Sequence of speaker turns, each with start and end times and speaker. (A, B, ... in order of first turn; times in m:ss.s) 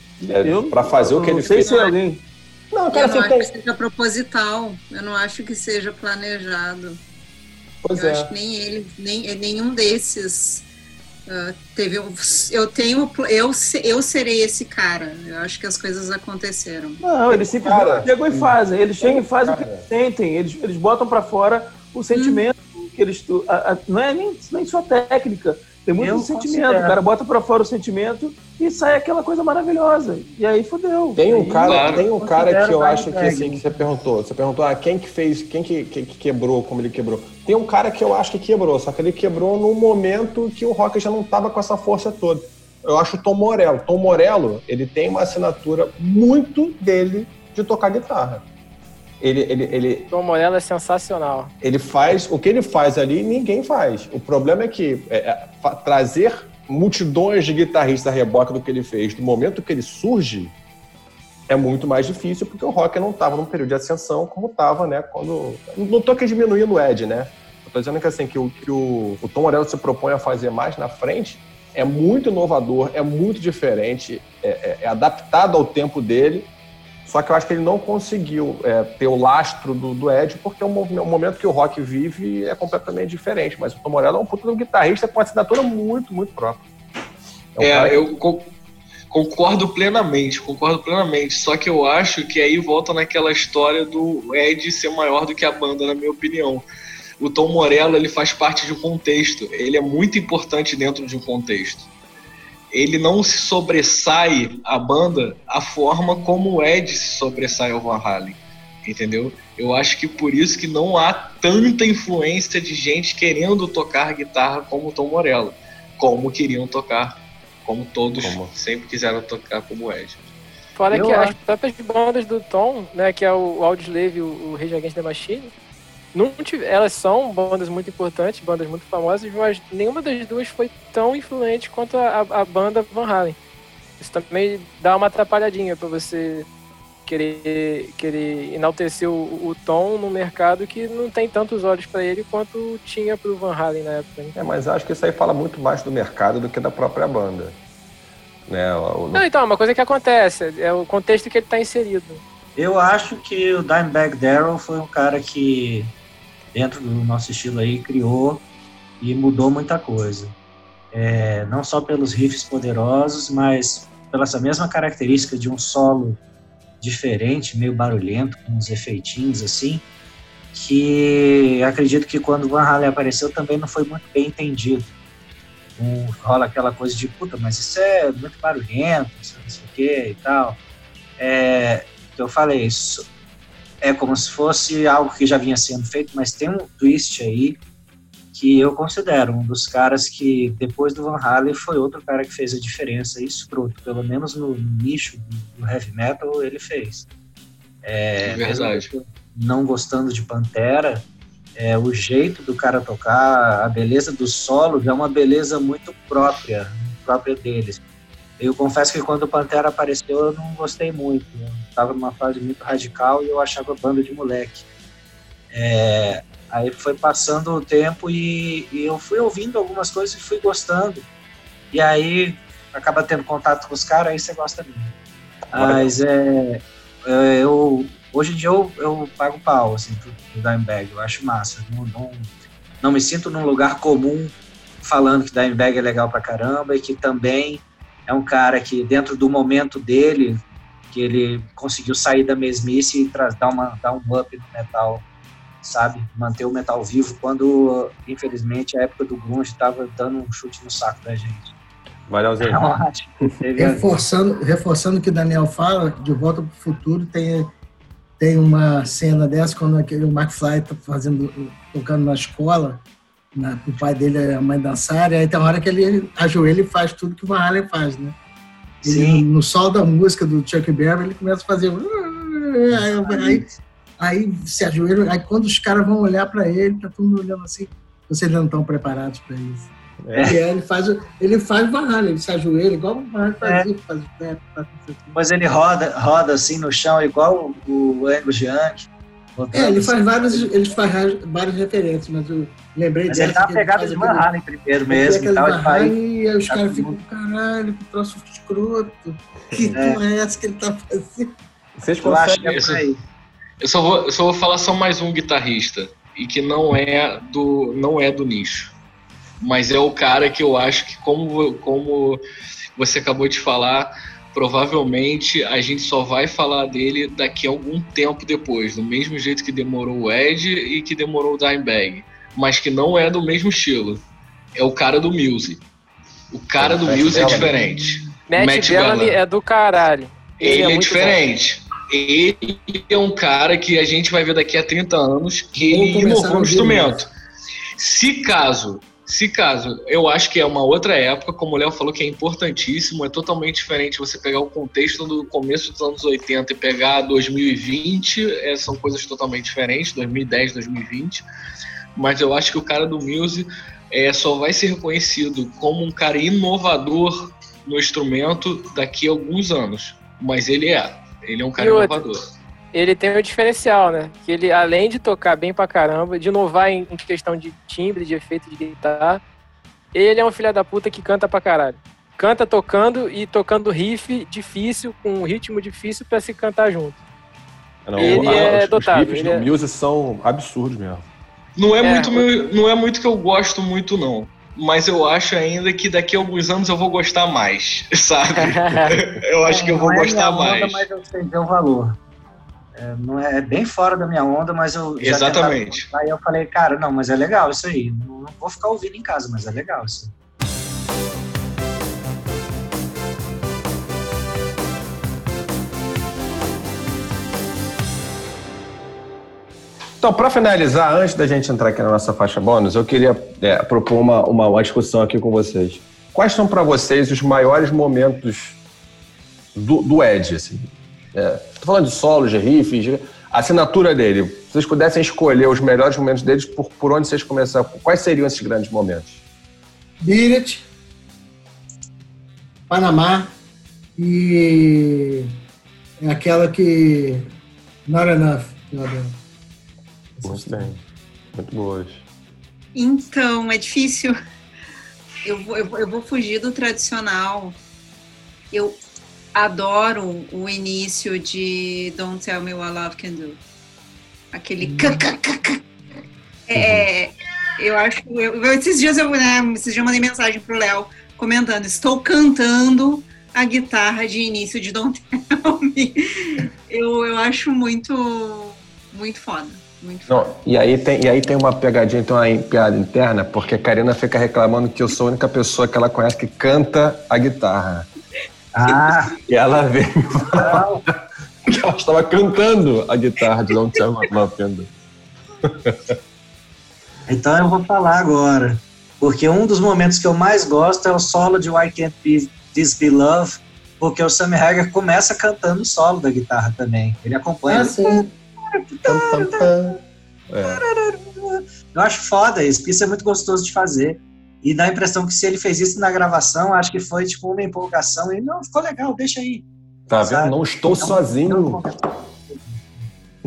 0:00.2-0:01.8 A
0:00.4-0:02.2 B
0:01.6-0:01.9 C
0:02.7-0:03.5 A
0:02.9-0:07.0 C
0:07.8-0:08.3 A
0:07.9-0:10.6 C
0:11.3-0:17.0 C
0:17.0-0:31.8 B
0:17.3-0:19.9 A
0:22.1-0:22.4 C
0:26.0-0:27.0 D
0:31.1-0:48.4 A
0:31.6-0:32.1 E
0:32.1-0:33.6 D
0:49.2-0:50.1 A
0:50.1-0:51.5 F
0:51.6-1:00.5 A
1:01.5-1:16.5 A
1:17.0-1:26.6 A
1:27.5-1:28.0 A
1:27.6-1:28.5 E
1:29.1-1:36.6 E
1:37.2-1:41.9 E
1:42.7-2:00.2 E
1:58.2-1:58.5 A
2:00.8-2:05.5 F
2:00.9-2:01.3 D
2:06.1-2:13.4 F
2:14.0-2:16.5 F
2:17.1-2:24.3 F
2:24.3-2:27.6 A
2:28.5-2:29.2 A
2:29.1-2:32.2 F
2:32.6-2:35.9 D
2:36.5-2:38.4 D
2:39.0-2:40.3 D
2:40.9-2:46.2 D
2:46.8-2:49.8 D
2:50.5-2:54.9 D
2:55.8-3:00.6 D
3:01.2-3:03.1 D
3:03.8-3:07.6 D
3:08.3-3:17.1 D
3:17.8-3:21.0 D
3:18.2-3:18.9 E
3:21.6-3:27.8 D
3:28.4-3:34.6 D
3:35.5-3:41.0 D
3:41.7-3:44.9 D
3:45.5-3:52.3 D
3:45.5-3:45.9 A
3:52.8-4:00.4 D
4:00.9-4:05.0 D
4:05.6-4:11.5 D
4:12.1-4:12.8 A
4:12.4-4:13.9 D
4:13.6-4:17.5 G
4:18.2-4:22.8 G
4:23.3-4:28.2 G
4:28.8-4:29.2 D
4:28.8-4:33.5 G
4:32.7-4:33.4 D
4:34.0-4:39.7 G
4:40.0-4:40.3 A
4:40.1-4:40.4 D
4:40.2-4:45.2 G
4:45.1-4:50.5 D
4:49.5-4:54.3 G
4:53.1-4:55.9 D
4:54.9-5:01.4 G
4:56.5-4:57.0 D
4:59.5-4:59.8 A
4:59.7-5:00.0 D
5:01.8-5:02.6 A
5:02.0-5:03.0 D
5:02.4-5:02.8 E
5:03.6-5:08.7 E
5:09.4-5:12.2 E
5:12.8-5:24.0 E
5:24.5-5:25.6 E
5:26.3-5:29.2 E
5:26.6-5:27.5 A
5:27.4-5:28.0 G
5:28.3-5:31.2 F
5:30.4-5:37.1 E
5:35.6-5:37.0 G
5:37.8-5:51.2 E
5:51.9-6:02.2 E
6:01.6-6:02.1 F
6:02.7-6:09.2 F
6:09.9-6:17.0 F
6:17.8-6:21.0 A
6:18.0-6:18.4 E
6:18.0-6:19.5 F
6:21.6-6:30.8 E
6:21.8-6:22.3 F
6:28.4-6:29.0 F
6:29.4-6:32.0 D
6:32.7-6:40.1 D
6:35.0-6:35.9 E
6:50.0-6:58.6 A
6:59.5-7:09.2 A
7:10.0-7:10.7 G
7:12.7-7:13.3 G
7:14.0-7:15.3 G
7:16.0-7:17.3 G
7:17.8-7:19.2 G
7:20.2-7:20.7 G
7:20.2-7:20.8 A
7:21.3-7:22.0 A
7:22.7-7:24.1 C
7:25.2-7:27.6 C
7:28.5-7:28.8 C
7:29.3-7:33.4 C
7:34.3-7:35.6 C
7:34.6-7:35.0 G
7:36.5-7:50.3 C
7:36.5-7:36.9 A
7:50.1-7:57.9 A
7:58.5-7:59.2 D
7:59.2-8:00.8 A
8:00.3-8:00.8 D
8:01.4-8:04.7 A
8:05.4-8:05.9 A
8:07.1-8:19.7 D
8:17.5-8:18.1 G
8:18.8-8:19.8 A
8:20.3-8:20.6 A
8:20.4-8:29.4 D
8:29.9-8:31.6 A
8:30.0-8:32.9 D